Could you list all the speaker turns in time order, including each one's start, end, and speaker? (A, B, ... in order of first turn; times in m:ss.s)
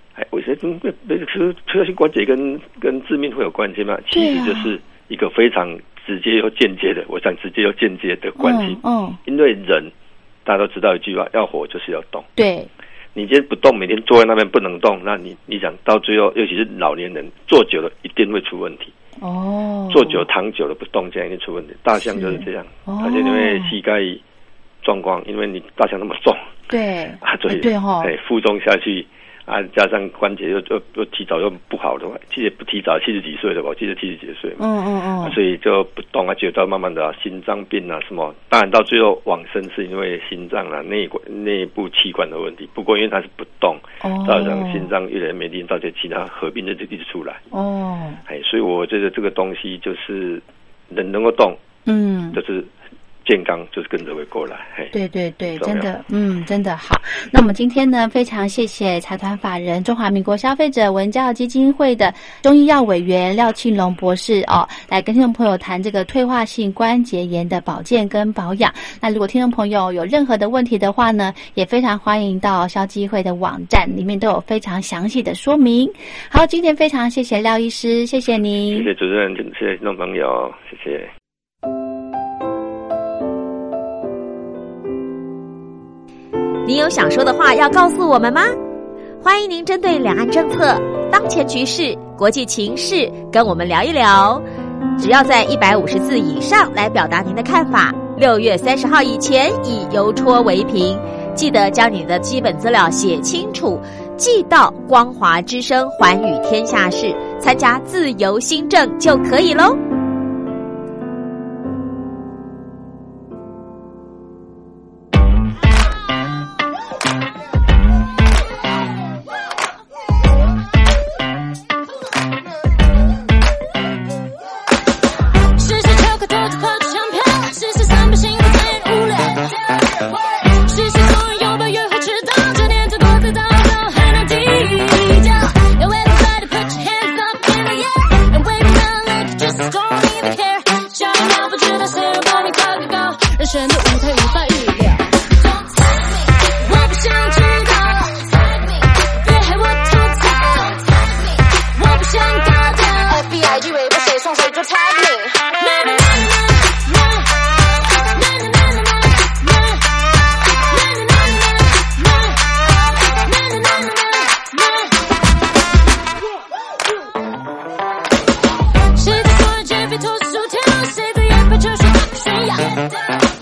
0:00.2-0:09.9 A
0:04.1-0:04.7 B
0:08.4-0:09.2 B
0:10.4-0:12.3 A
0:12.4-0:12.7 B
0:13.1-0:18.9 A
0:19.2-0:20.2 B
0:19.9-0:24.2 A
0:22.1-0:23.7 B
0:24.8-0:26.4 A
0:26.7-0:28.1 B
0:27.2-0:34.6 A
0:34.6-0:35.4 B
0:35.2-0:47.4 A
0:44.0-0:44.9 B
0:47.5-0:48.2 B
0:48.2-0:51.6 A
0:51.8-0:52.4 B
0:52.3-0:52.7 A
0:53.2-0:54.9 A
0:54.9-1:18.9 B
0:55.5-0:55.9 A
1:18.7-1:21.1 A
1:26.6-1:28.5 C
1:29.2-1:34.4 C
1:35.0-1:49.8 C
2:05.5-2:33.2 D
2:33.1-2:35.4 E
2:35.5-2:40.0 D
2:40.6-2:45.0 D
2:48.9-2:52.9 D